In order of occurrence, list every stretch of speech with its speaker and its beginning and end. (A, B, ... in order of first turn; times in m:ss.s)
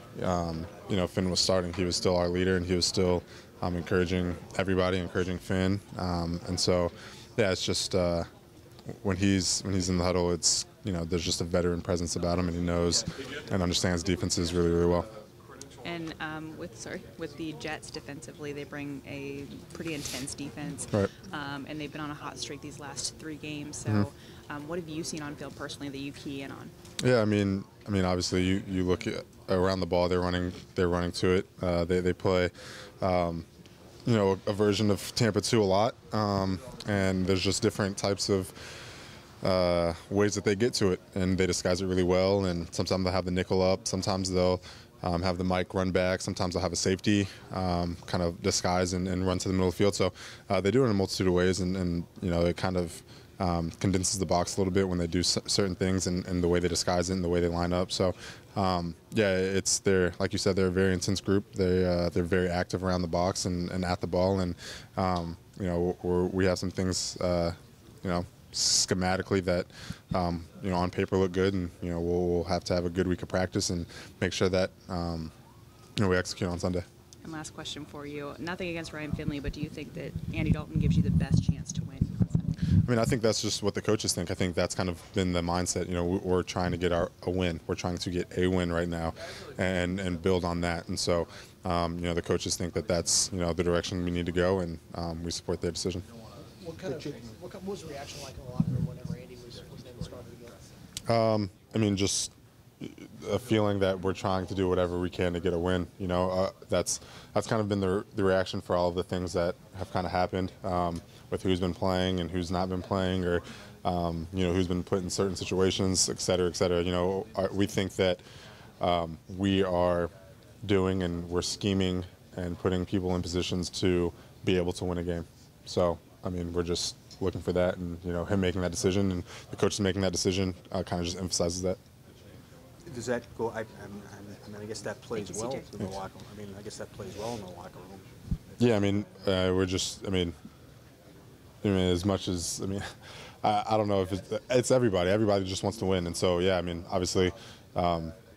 0:00.1-0:08.3 A
0:08.9-0:15.1 A
0:15.8-0:26.7 B
0:27.0-0:33.4 A
0:34.0-1:15.3 A
1:16.0-1:16.8 A
1:17.2-1:22.6 B
1:22.8-1:36.1 A
1:36.6-1:40.6 C
1:41.1-1:58.2 A
1:58.8-2:00.1 A
2:00.6-2:11.8 A
2:12.8-2:18.6 D
2:15.2-2:15.7 B
2:18.6-2:20.3 A
2:21.6-2:22.9 A
2:23.4-2:28.1 A